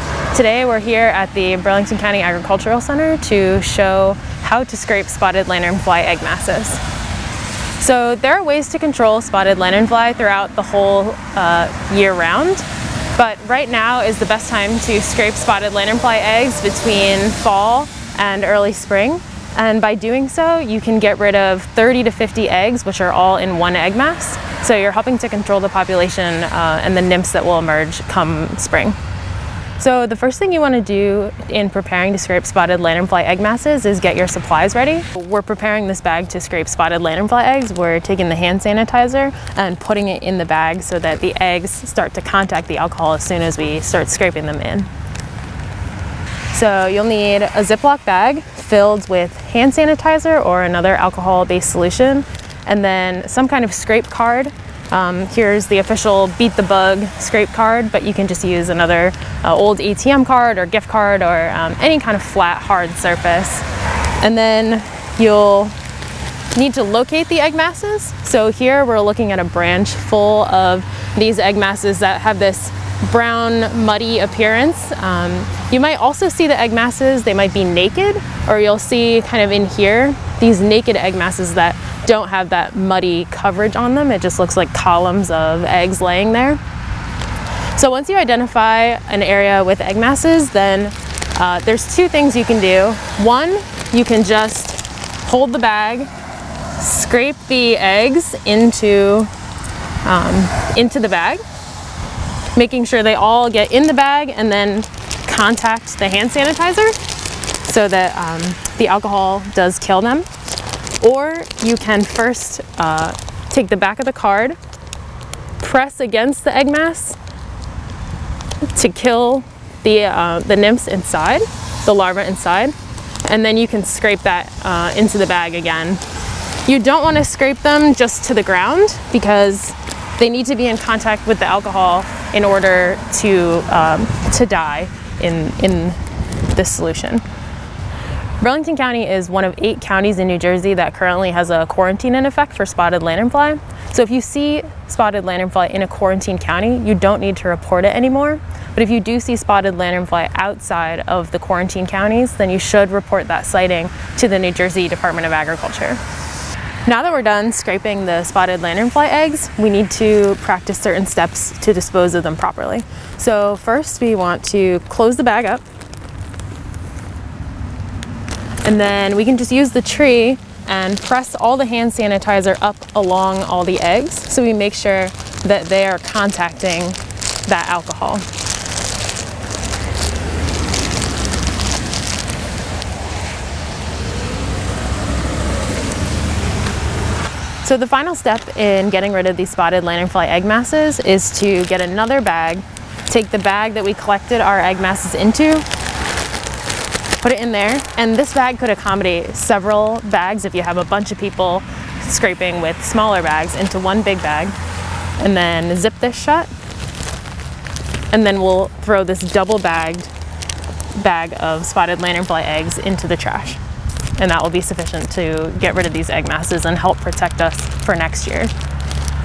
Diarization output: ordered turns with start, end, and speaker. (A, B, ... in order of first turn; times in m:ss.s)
0:00.3-0:06.8 A
0:07.8-0:29.0 A
0:29.8-0:44.9 A
0:46.5-1:03.6 A
1:04.2-1:05.8 A
1:06.5-1:26.6 A
1:27.7-1:36.1 A
1:36.8-1:39.3 A
1:40.0-1:41.4 A
1:42.5-1:47.0 A
1:47.6-1:50.3 A
1:51.0-1:54.6 A
1:55.6-1:57.2 A
1:58.6-2:06.0 A
2:06.6-2:17.2 A
2:18.4-2:36.0 A
2:36.8-2:45.6 A
2:48.6-2:58.2 A
3:07.6-3:15.6 A
3:17.2-3:24.6 A
3:25.2-3:26.5 A
3:28.1-3:30.1 A
3:31.0-3:33.6 A
3:34.2-3:38.5 A